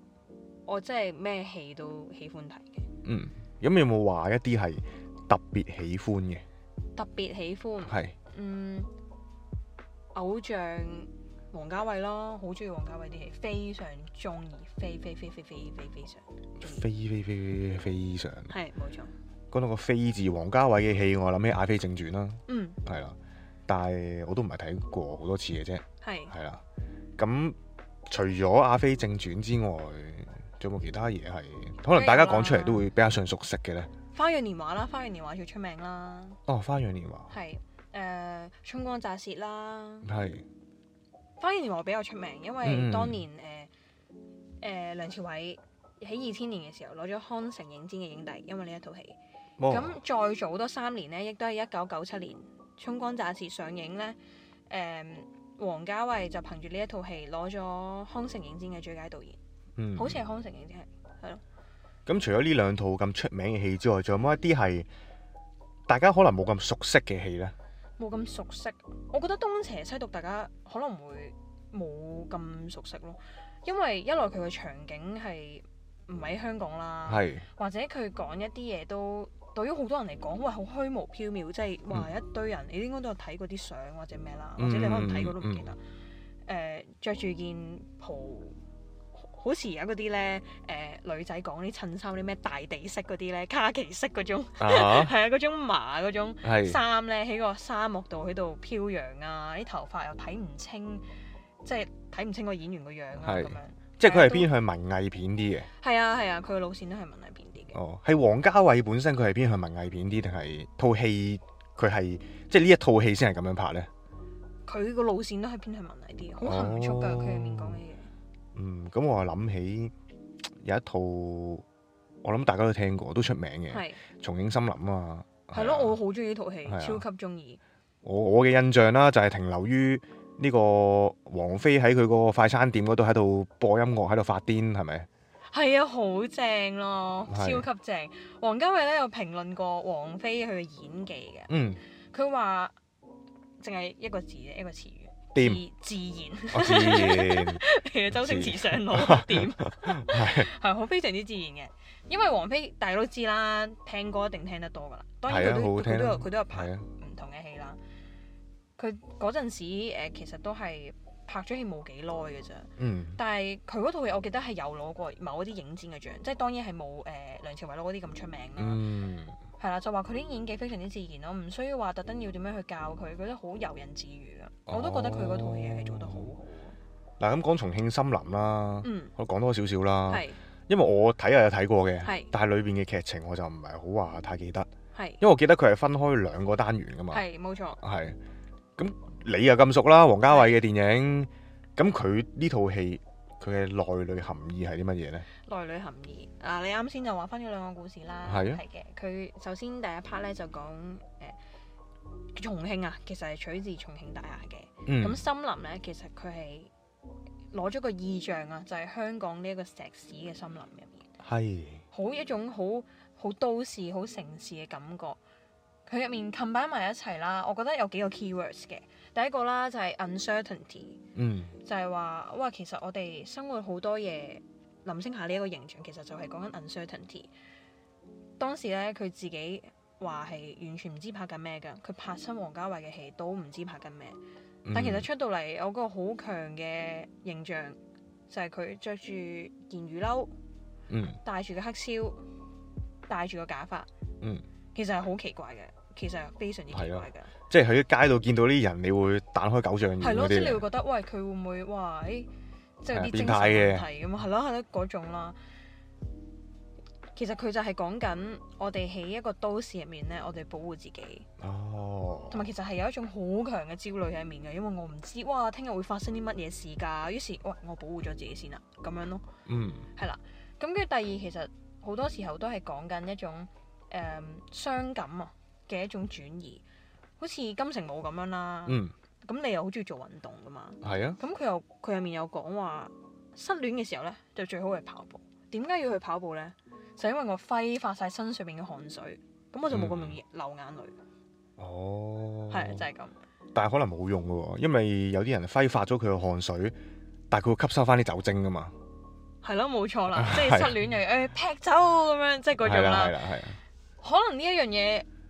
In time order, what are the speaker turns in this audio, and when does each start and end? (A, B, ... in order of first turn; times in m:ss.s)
0:00.7-0:02.9 A
0:03.0-0:06.4 B
0:07.0-0:08.9 A
0:07.8-0:08.2 B
0:10.1-0:16.8 A
0:16.6-0:18.5 B
0:18.5-0:19.1 A
0:19.5-0:23.2 B
0:22.5-0:22.8 A
0:23.7-0:26.6 B
0:26.0-0:26.3 A
0:27.2-0:27.6 B
0:28.1-0:33.9 B
0:31.9-0:32.9 A
0:34.1-0:36.4 A
0:36.5-0:37.3 B
0:37.3-0:40.1 A
0:40.0-0:40.5 B
0:41.4-0:43.7 A
0:42.6-0:43.2 B
0:44.6-0:54.2 A
0:49.6-0:50.0 B
0:54.7-0:59.4 A
0:59.8-1:00.2 B
1:00.0-1:01.4 A
1:02.1-1:04.9 B
1:05.9-1:07.5 B
1:08.0-1:25.8 A
1:17.1-1:17.5 B
1:24.6-1:25.7 B
1:26.5-1:28.6 A
1:29.2-1:41.0 A
1:34.6-1:35.1 B
1:36.4-1:36.8 B
1:41.6-1:44.5 A
1:43.2-1:45.7 B
1:45.8-1:47.8 A
1:47.7-1:53.9 B
1:54.7-1:58.1 A
1:56.4-1:57.8 B
1:58.6-1:59.9 B
2:00.6-2:01.6 B
2:02.2-2:06.0 B
2:03.7-2:04.0 A
2:05.5-2:07.6 A
2:06.7-2:07.0 B
2:08.0-2:15.1 B
2:15.5-2:21.5 A
2:17.3-2:17.7 B
2:21.5-2:21.8 B
2:22.1-2:22.7 A
2:23.6-2:37.8 A
2:25.4-2:25.6 B
2:26.5-2:30.5 B
2:35.3-2:36.8 B
2:38.8-2:48.8 A
2:42.8-2:43.2 B
2:48.6-2:49.4 B
2:49.6-2:56.7 A
2:54.7-2:56.3 B
2:57.2-3:04.7 B
2:58.8-2:59.1 A
3:00.1-3:00.4 A
3:02.0-3:02.3 A
3:04.9-3:05.2 A
3:05.2-3:07.2 B
3:07.1-3:07.8 A
3:07.8-3:08.2 B
3:08.8-3:15.3 B
3:10.3-3:10.6 A
3:15.4-3:21.4 A
3:18.3-3:18.6 B
3:22.4-3:26.7 A
3:24.9-3:25.2 B
3:27.5-3:31.1 A
3:31.2-3:31.8 B
3:31.9-3:35.2 A
3:35.9-3:41.0 A
3:41.2-3:41.5 B
3:41.6-3:47.3 A
3:48.4-3:54.2 A
3:54.6-3:55.1 B
3:54.7-3:57.8 A
3:58.3-4:00.3 A
4:00.9-4:01.2 B
4:01.2-4:02.2 A
4:03.1-4:03.9 A
4:04.8-4:07.3 A
4:06.7-4:10.7 B
4:10.0-4:12.3 A
4:12.8-4:15.4 A
4:12.9-4:13.9 B
4:17.2-4:21.3 A
4:21.4-4:22.5 B
4:22.3-4:29.2 A
4:29.5-4:29.9 B
4:30.0-4:36.6 A
4:37.2-4:51.0 A
4:38.7-4:38.9 B
4:40.8-4:41.2 B
4:49.7-4:50.2 B
4:51.6-4:52.8 B
4:52.5-4:53.2 A
4:53.6-4:56.8 B
4:57.3-4:58.7 B
4:59.4-5:03.2 A
5:00.1-5:00.8 B
5:02.6-5:03.6 B
5:04.0-5:05.1 A